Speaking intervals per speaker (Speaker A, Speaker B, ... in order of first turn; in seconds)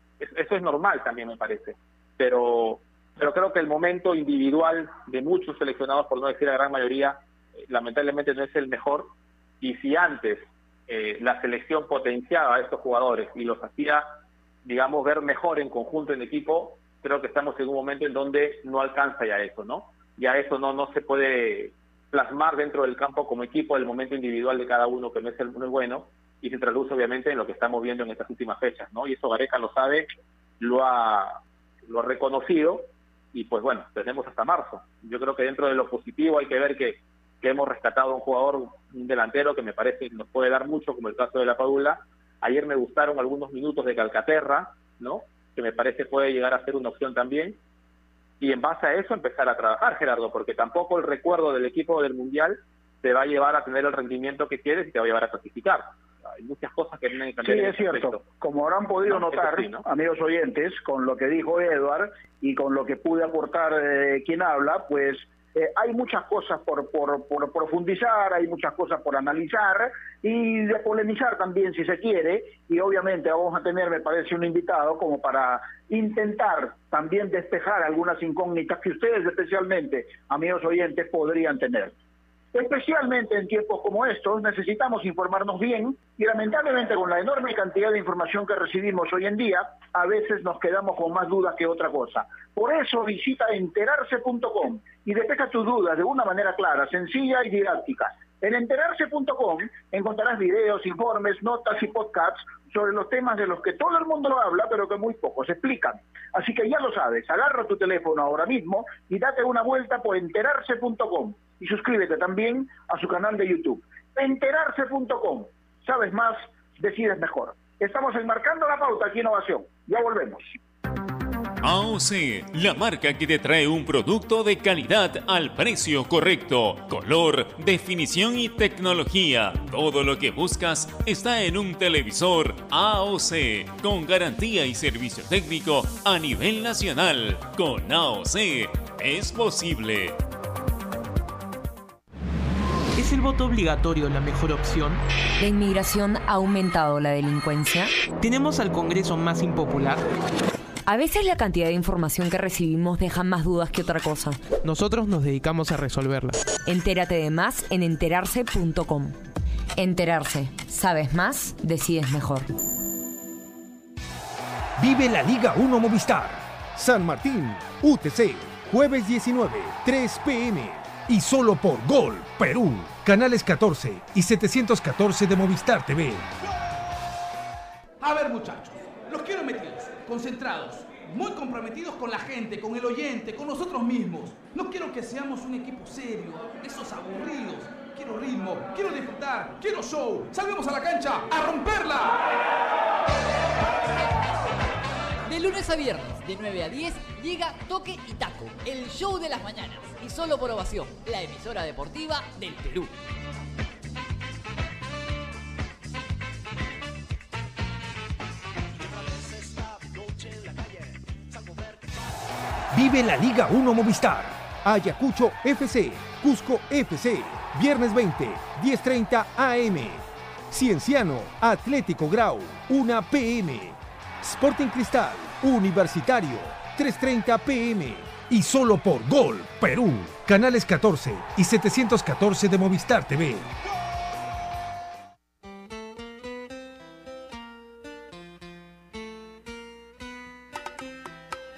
Speaker A: 0.2-14.1, 14.6-30.1, 30.6-47.6, 48.4-58.2, 59.1-59.9
Speaker B: 57.4-82.0, 82.5-120.5
Speaker C: 121.6-140.2
Speaker D: 143.0-145.0, 148.2-150.1, 154.6-156.4
Speaker E: 145.4-147.9, 150.9-154.4, 156.7-159.2, 159.8-162.5
Speaker F: 164.8-176.3, 212.7-233.5
Speaker G: 178.0-192.2
Speaker H: 195.3-202.9